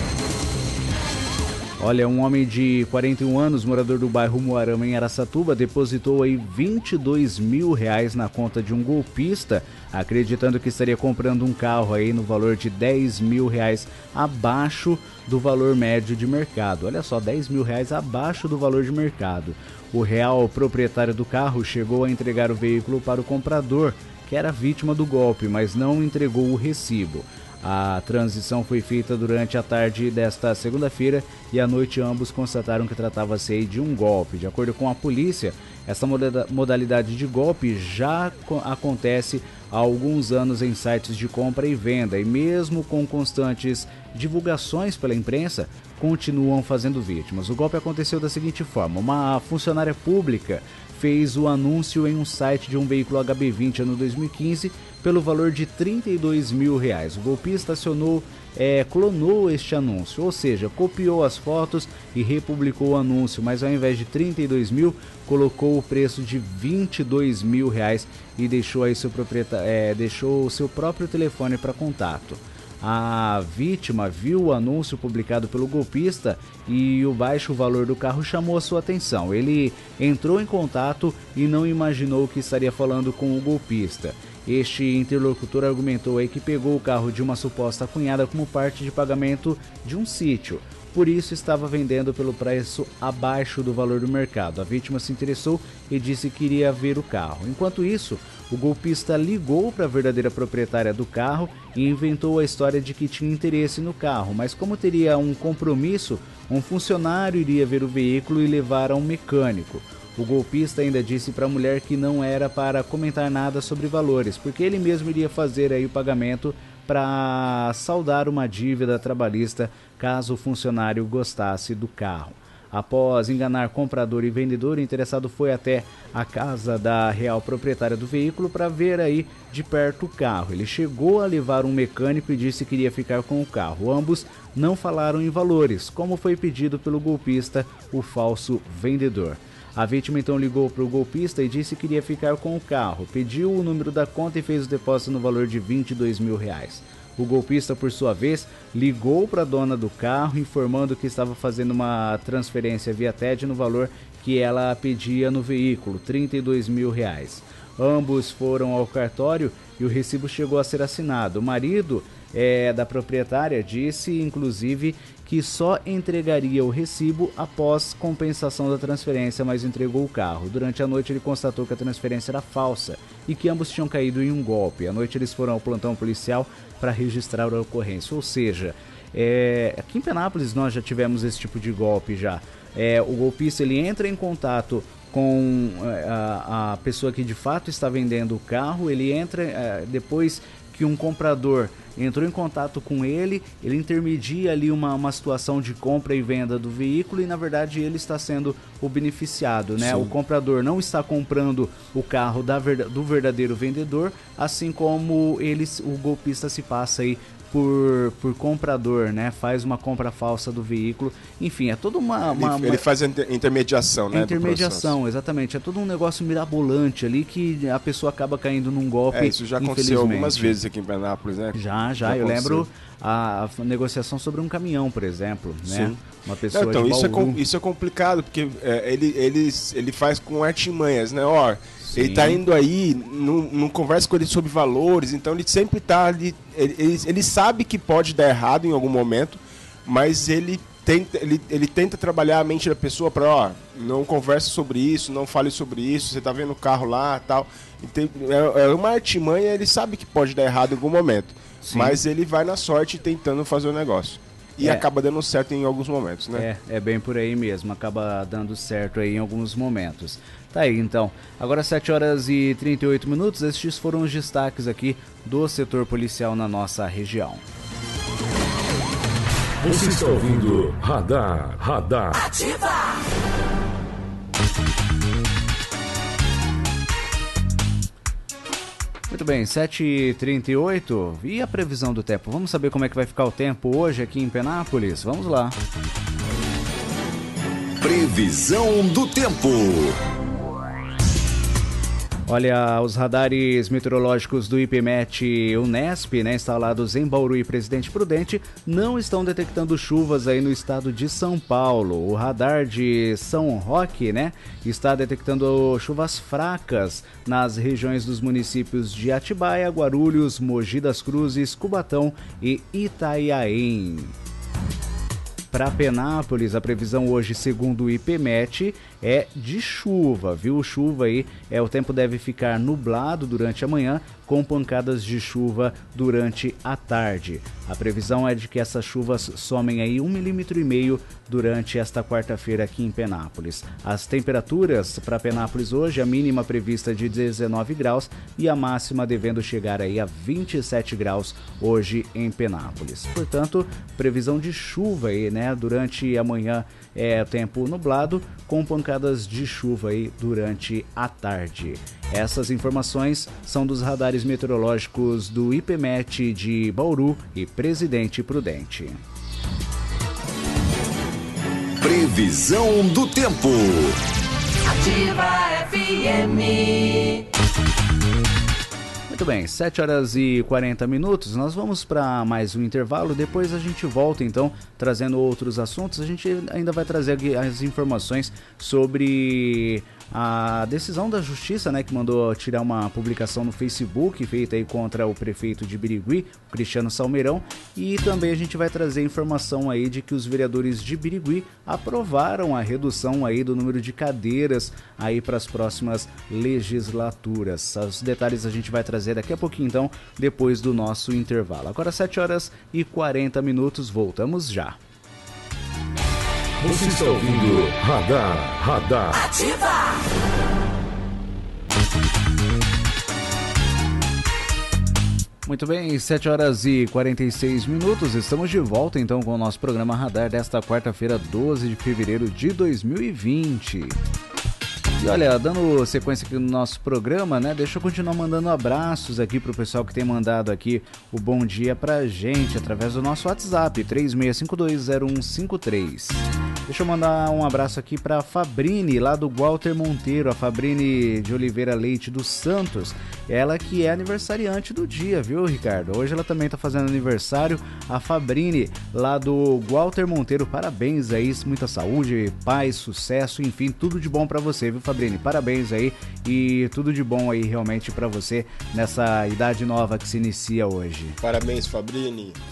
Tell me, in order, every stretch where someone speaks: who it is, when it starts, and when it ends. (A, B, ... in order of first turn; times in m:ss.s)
0:01.8-3:32.8 A
3:19.8-3:20.1 B
3:32.3-3:35.0 B
3:34.1-3:40.6 A
3:39.1-3:42.7 B
3:41.5-3:47.4 A
3:45.6-4:16.5 B
3:51.8-3:52.4 A
4:11.6-4:12.0 A
4:14.6-4:14.8 A
4:16.4-4:27.4 A
4:29.6-4:32.4 C
4:39.1-4:45.6 A
4:47.8-4:50.0 D
4:52.3-5:14.1 A
5:15.5-5:59.0 A
6:01.8-6:04.0 D
6:04.6-6:07.2 E
6:09.1-6:44.8 A
6:46.6-6:49.4 C
6:55.4-7:04.0 A
7:05.0-7:41.2 A
7:41.2-7:42.4 B